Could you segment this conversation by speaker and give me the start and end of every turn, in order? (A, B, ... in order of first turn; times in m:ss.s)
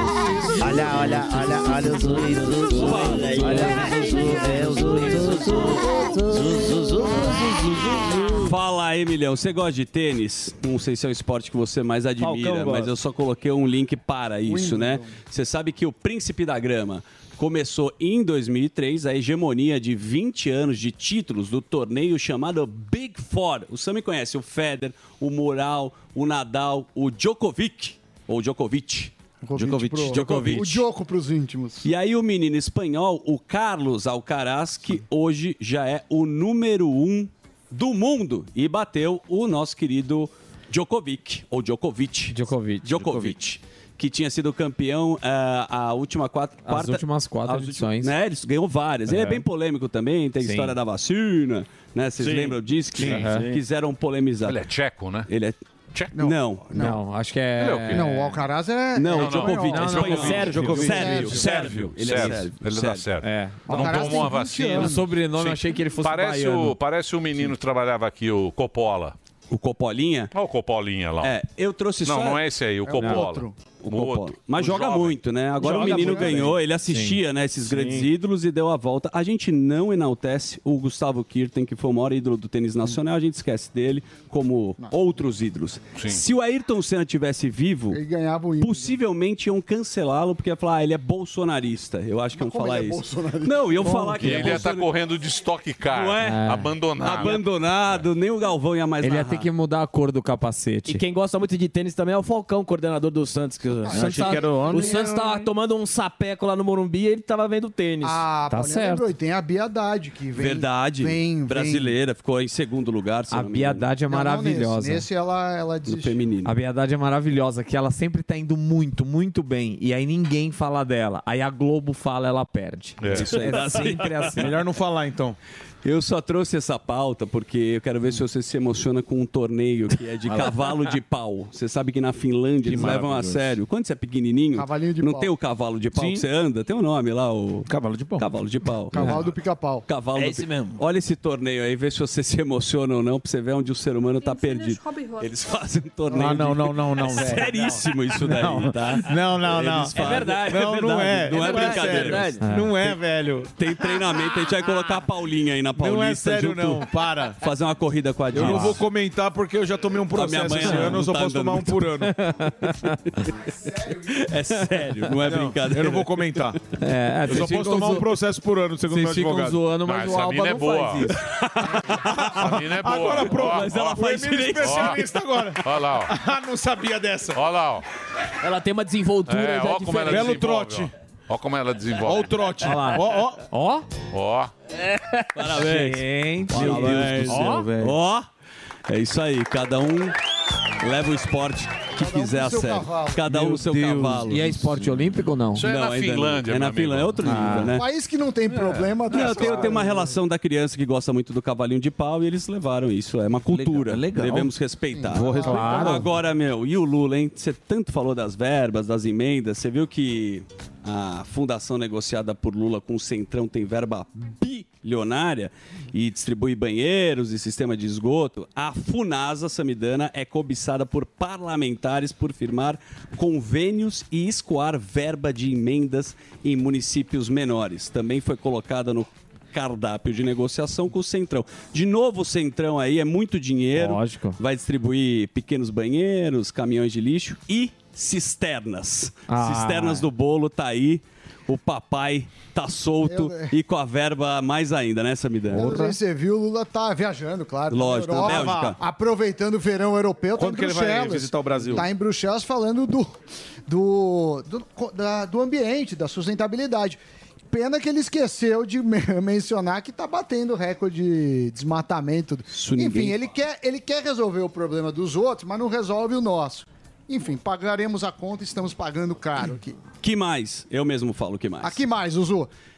0:00.6-0:08.0 A
0:00.6-0:00.9 B
0:02.7-0:03.9 B
0:03.1-0:03.8 C
0:08.4-0:30.9 B
0:12.2-0:12.9 C
0:14.5-0:15.2 D
0:29.4-0:31.9 D
0:29.6-0:30.4 E
0:31.8-0:54.6 B
0:42.3-0:43.3 F
0:46.7-0:48.2 F
0:49.1-0:49.4 F
0:50.4-0:50.8 F
0:52.2-0:53.6 C
0:53.0-0:53.5 F
0:54.4-0:55.3 G
0:55.3-0:55.6 B
0:56.1-0:57.0 D
0:56.2-0:56.7 B
0:56.8-0:58.4 F
0:57.6-0:58.1 G
0:57.9-1:01.7 D
0:59.0-1:03.1 B
0:59.1-1:00.5 G
0:59.7-1:01.1 F
0:59.9-1:01.5 C
1:00.5-1:01.0 E
1:01.2-1:09.2 G
1:03.2-1:06.8 F
1:03.7-1:05.1 D
1:09.5-1:10.3 B
1:10.3-1:11.4 G
1:11.2-1:12.4 B
1:12.0-1:15.2 G
1:12.8-1:13.6 D
1:13.8-1:28.0 B
1:15.6-1:16.5 C
1:15.6-1:17.2 F
1:26.0-1:26.2 G
1:27.9-1:29.0 D
1:28.6-1:35.0 B
1:32.3-1:34.3 D
1:33.8-1:34.4 F
1:34.2-1:38.0 G
1:35.9-1:36.4 B
1:36.2-1:36.8 F
1:37.0-1:39.5 B
1:39.0-1:41.0 F
1:40.9-1:48.3 C
1:43.8-1:45.5 D
1:43.9-1:44.9 E
1:48.0-1:52.0 D
1:48.5-1:49.1 F
1:50.4-1:53.9 B
1:53.3-1:55.1 F
1:54.1-1:56.2 D
1:55.8-1:56.5 B
1:56.4-2:04.6 F
2:03.0-2:03.3 G
2:03.1-2:04.3 B
2:04.4-2:05.4 E
2:05.8-2:19.2 B
2:12.8-2:13.5 E
2:14.5-2:15.3 D
2:17.7-2:18.3 E
2:18.9-2:19.9 D
2:19.9-2:32.4 B
2:20.2-2:20.8 C
2:26.1-2:33.5 E
2:27.0-2:27.6 C
2:29.9-2:32.5 C
2:32.4-2:32.7 F
2:33.5-2:38.8 B
2:35.8-2:37.4 E
2:38.3-2:42.1 E
2:38.3-2:38.8 F
2:40.1-2:42.1 B
2:40.6-2:41.0 F
2:42.1-2:43.0 F
2:43.2-2:46.6 B
2:43.6-2:44.1 D
2:45.1-2:46.6 E
2:46.8-2:48.2 F
2:47.3-2:49.6 E
2:48.9-2:51.2 F
2:49.8-2:51.1 G
2:51.2-2:55.1 B
2:52.1-2:57.4 E
2:52.3-2:53.9 G
2:54.5-2:55.1 G
2:55.6-2:56.2 G
2:57.3-2:57.8 G
2:58.4-3:00.4 C
2:59.3-3:02.5 G
3:00.1-3:00.9 E
3:02.0-3:03.4 E
3:02.6-3:03.2 C
3:02.7-3:03.0 F
3:03.5-3:03.9 F
3:04.1-3:04.5 G
3:04.8-3:05.3 C
3:05.4-3:08.3 B
3:05.5-3:07.7 F
3:06.6-3:08.0 E
3:07.3-3:07.6 C
3:08.9-3:10.2 B
3:10.8-3:14.6 B
3:12.0-3:13.3 D
3:13.3-3:14.4 E
3:14.3-3:15.7 F
3:15.6-3:17.4 G
3:15.6-3:17.9 B
3:17.2-3:17.8 F
3:17.6-3:20.1 D
3:18.5-3:19.0 G
3:19.1-4:05.8 B
3:23.5-3:24.5 E
3:24.9-3:26.1 D
3:25.3-3:26.1 F
3:53.8-3:54.4 F
3:59.3-4:00.1 F
4:03.0-4:03.6 D
4:05.5-4:13.1 D
4:05.5-4:05.9 F
4:07.7-4:08.8 B
4:08.2-4:08.8 E
4:10.4-4:11.9 E
4:13.7-4:17.0 D
4:17.5-4:29.8 D
4:22.5-4:23.2 B
4:30.0-4:31.8 B
4:31.6-4:32.5 D